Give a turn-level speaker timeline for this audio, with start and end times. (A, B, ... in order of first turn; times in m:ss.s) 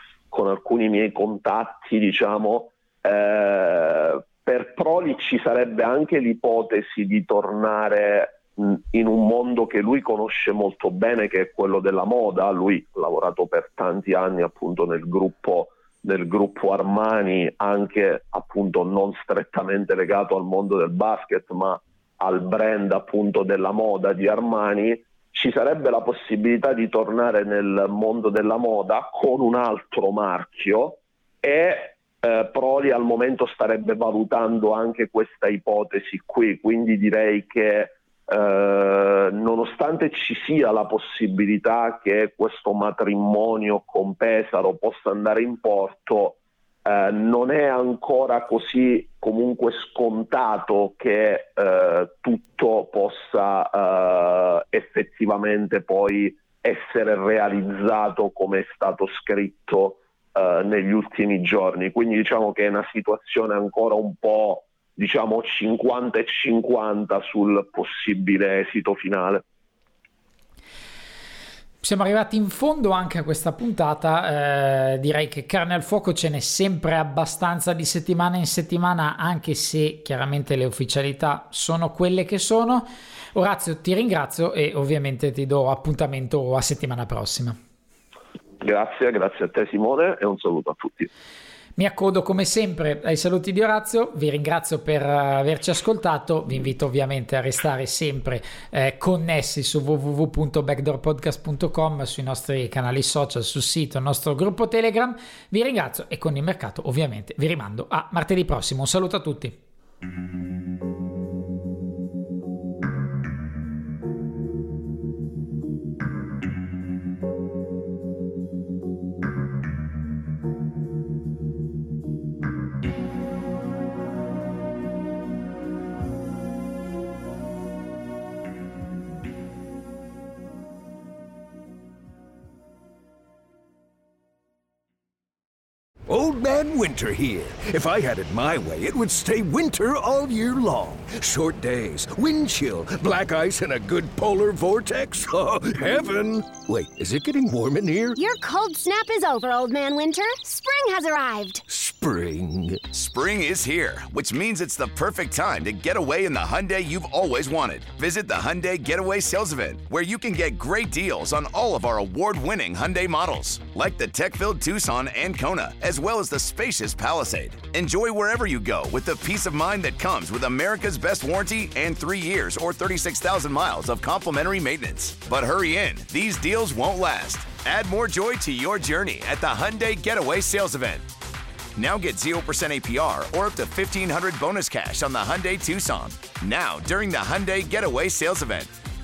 0:00.3-1:09.4 A
1:11.8-1:27.6 B
1:28.6-1:31.1 A
1:31.8-1:49.6 B
2:16.1-2:28.2 C
2:28.2-2:31.6 D
2:31.7-2:33.0 C
2:33.0-3:01.1 E
3:01.8-3:08.7 E